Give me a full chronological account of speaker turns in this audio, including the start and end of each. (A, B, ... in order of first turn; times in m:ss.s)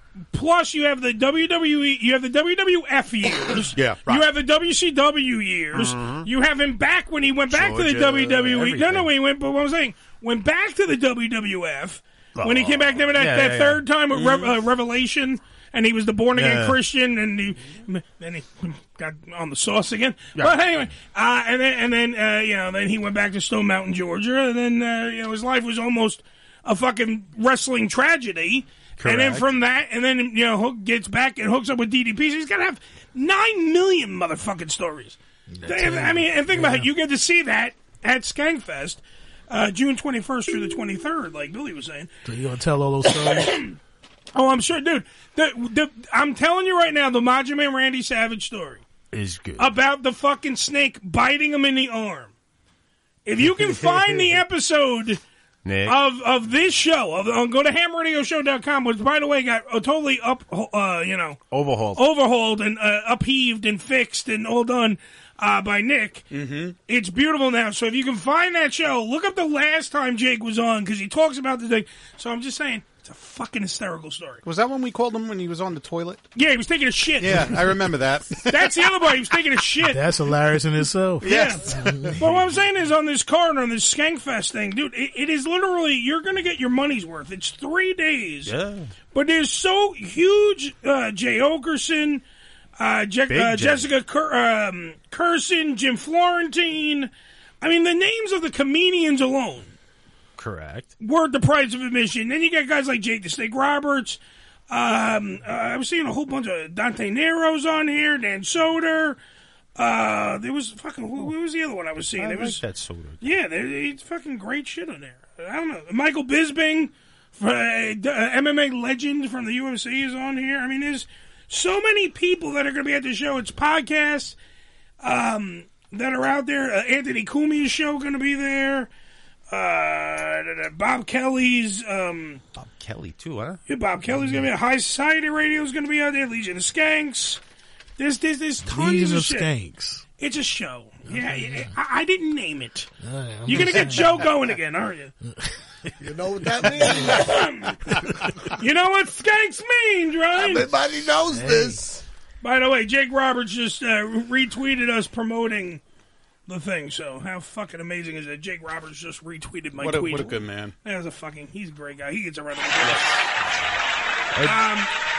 0:00.3-0:42.1 A
0:03.7-0:04.2 B
0:05.7-0:06.3 C
0:07.5-0:09.1 C
0:12.4-0:14.4 C
0:16.4-0:16.8 C
0:20.4-0:20.6 C
0:29.0-0:29.5 C
0:35.6-0:36.8 D
0:42.3-0:43.6 D
0:43.1-0:43.8 A
0:44.4-0:48.8 A
0:49.1-0:49.7 C
0:49.6-0:52.3 A
0:53.2-0:55.2 A
0:53.4-0:54.4 C
0:55.6-0:56.0 C
0:55.9-1:01.4 A
1:01.5-1:02.0 C
1:02.0-1:06.3 A
1:06.3-1:06.8 B
1:06.9-1:14.4 A
1:14.4-1:16.2 B
1:16.4-1:17.6 A
1:17.2-1:18.7 B
1:18.5-1:20.0 A
1:19.9-1:22.2 D
1:21.2-1:28.5 A
1:21.2-1:21.6 B
1:28.5-1:28.9 C
1:29.1-1:32.2 A
1:32.8-1:37.1 A
1:33.3-1:33.9 C
1:37.6-1:39.7 A
1:40.4-1:40.9 C
1:41.0-1:44.2 A
1:44.7-1:49.2 A
1:49.8-1:52.6 A
1:52.2-1:53.2 C
1:53.2-2:04.4 A
2:05.0-2:08.9 A
2:09.5-2:12.4 A
2:12.6-2:13.6 C
2:13.7-2:17.4 A
2:18.0-2:19.5 A
2:18.7-2:20.0 D
2:20.2-2:22.9 A
2:23.0-2:24.2 D
2:23.5-2:25.1 A
2:26.0-2:27.4 E
2:27.1-2:27.8 A
2:28.6-2:30.7 A
2:30.4-2:32.0 E
2:31.3-2:31.8 D
2:32.4-2:35.8 A
2:36.5-2:43.2 A
2:39.8-2:40.7 B
2:44.4-2:44.6 C
2:44.4-2:44.9 A